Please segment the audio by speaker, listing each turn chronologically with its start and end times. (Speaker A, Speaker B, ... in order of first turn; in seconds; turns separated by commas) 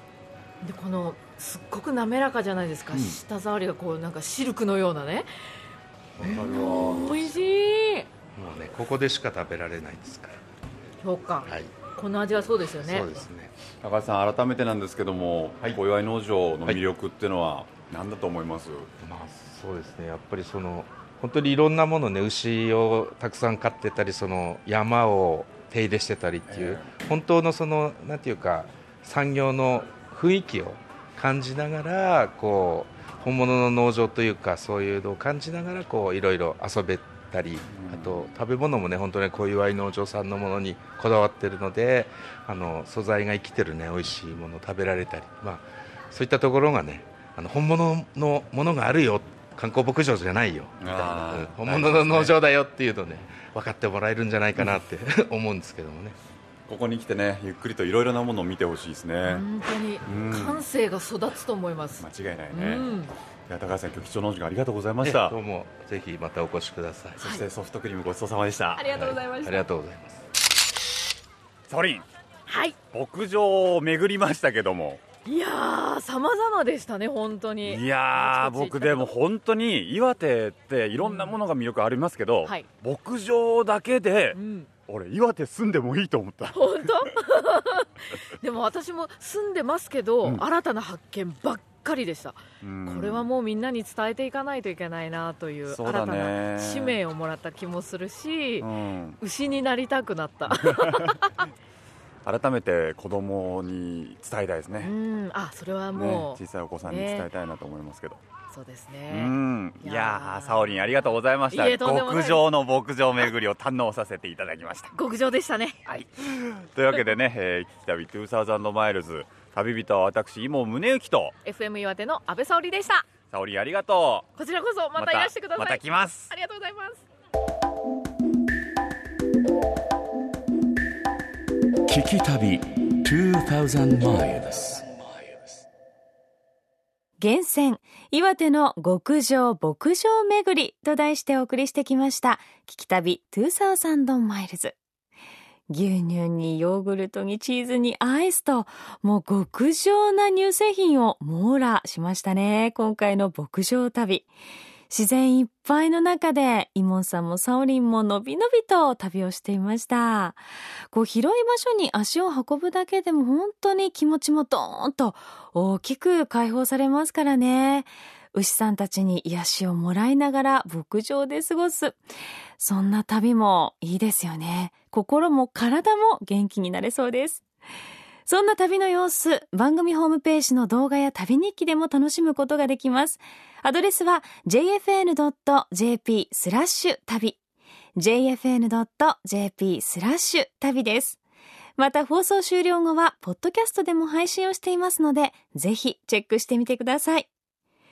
Speaker A: 0.6-5.3, Speaker B: 2.9-3.2, Speaker B: 6.2-7.3, Speaker A: 6.2-8.1, Speaker C: 8.3-10.4, Speaker A: 11.0-13.1, Speaker C: 11.4-11.8, Speaker C: 12.8-13.5, Speaker B: 13.8-18.9, Speaker C: 19.0-56.1, Speaker B: 26.5-26.9, Speaker B: 37.7-38.2, Speaker B: 50.8-52.4, Speaker B: 56.7-59.5, Speaker A: 59.2-63.1, Speaker B: 60.0-60.6, Speaker B: 62.0-62.9, Speaker B: 63.5-65.4, Speaker C: 65.0-67.2, Speaker B: 67.2-68.9, Speaker A: 68.7-69.7, Speaker C: 68.9-70.2, Speaker B: 71.7-72.1, Speaker A: 72.5-72.8, Speaker B: 72.9-75.0, Speaker A: 75.2-79.1, Speaker B: 77.6-87.1, Speaker A: 81.0-81.3, Speaker A: 84.3-84.7, Speaker A: 86.5-98.7, Speaker B: 92.6-93.3, Speaker B: 95.6-97.0, Speaker B: 98.6-99.2, Speaker A: 99.2-101.5, Speaker B: 100.4-101.2, Speaker B: 102.2-104.9, Speaker A: 104.8-107.3, Speaker B: 105.9-108.2, Speaker A: 108.5-112.7, Speaker B: 109.1-114.9, Speaker A: 114.9-115.8, Speaker B: 115.9-121.3, Speaker A: 121.4-123.1, Speaker B: 123.3-124.3, Speaker A: 124.4-127.0, Speaker B: 125.0-126.3, Speaker D: 131.9-135.6, Speaker E: 137.2-144.8, Speaker E: 145.7-154.3, Speaker E: 154.9-172.0, Speaker E: 172.6-177.4, Speaker E: 178.2-187.4, Speaker E: 188.0-191.2, Speaker E: 191.8-197.3